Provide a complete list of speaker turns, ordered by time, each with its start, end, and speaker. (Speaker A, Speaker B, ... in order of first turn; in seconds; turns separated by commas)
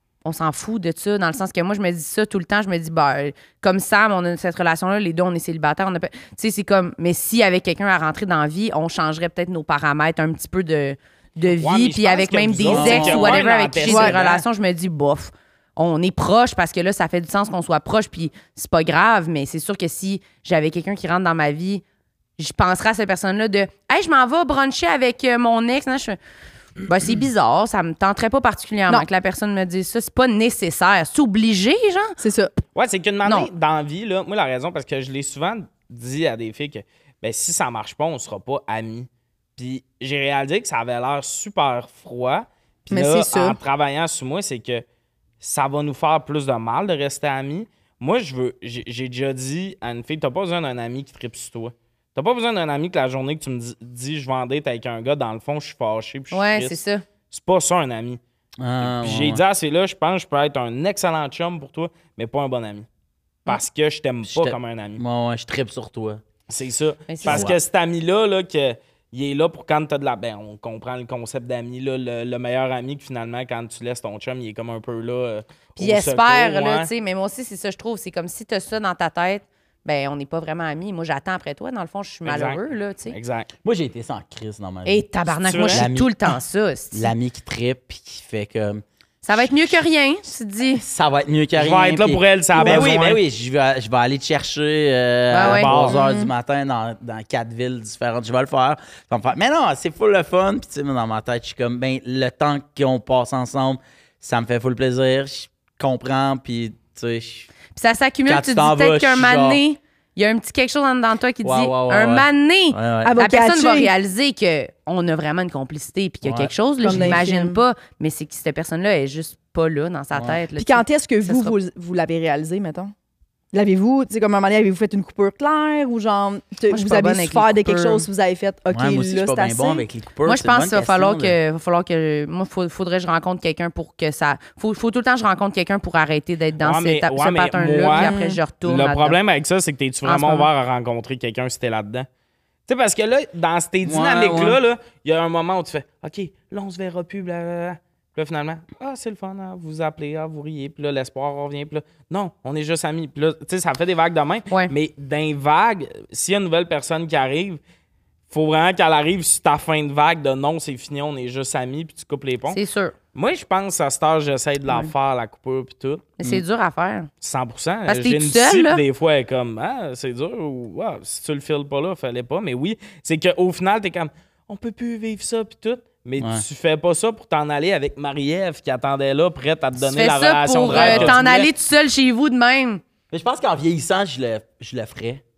Speaker A: 0.2-21.8, Speaker B: 11.5-14.4, Speaker C: 12.7-13.4, Speaker D: 13.9-14.1, Speaker A: 22.4-26.2, Speaker A: 26.8-32.2, Speaker D: 32.2-32.5, Speaker B: 32.8-44.9, Speaker D: 42.9-43.6, Speaker B: 45.4-56.8, Speaker A: 56.3-57.0, Speaker B: 57.3-58.2, Speaker C: 58.6-59.4, Speaker B: 58.8-62.9, Speaker B: 63.5-65.0, Speaker C: 64.3-66.2, Speaker B: 66.5-76.9, Speaker A: 67.1-67.5, Speaker C: 67.2-67.6, Speaker A: 75.8-83.2, Speaker B: 82.2-83.5, Speaker C: 83.6-85.0, Speaker A: 84.8-87.1, Speaker B: 85.4-85.9, Speaker C: 85.7-86.3, Speaker C: 86.9-89.6, Speaker A: 89.2-90.8, Speaker C: 90.8-107.5, Speaker B: 91.6-93.2, Speaker D: 92.6-92.9, Speaker A: 95.3-95.7, Speaker B: 95.4-96.0, Speaker D: 95.8-96.3, Speaker A: 107.8-121.5, Speaker C: 108.3-109.6, Speaker C: 111.4-113.1, Speaker D: 113.0-113.9, Speaker C: 116.2-117.2, Speaker D: 116.8-117.6, Speaker C: 120.1-120.4, Speaker D: 120.6-122.9, Speaker D: 123.5-129.8, Speaker A: 126.7-128.1, Speaker C: 128.7-131.4, Speaker A: 130.3-139.2, Speaker B: 136.6-138.1, Speaker D: 138.0-138.4, Speaker B: 138.6-142.1, Speaker A: 140.1-140.5, Speaker B: 142.7-157.6, Speaker C: 143.8-144.6, Speaker B: 158.3-162.6, Speaker A: 162.5-162.9, Speaker B: 163.1-166.1, Speaker A: 166.2-167.1, Speaker B: 167.2-181.2, Speaker A: 167.9-168.8, Speaker C: 176.2-176.4, Speaker A: 179.8-182.8, Speaker C: 180.7-181.5, Speaker C: 183.1-185.2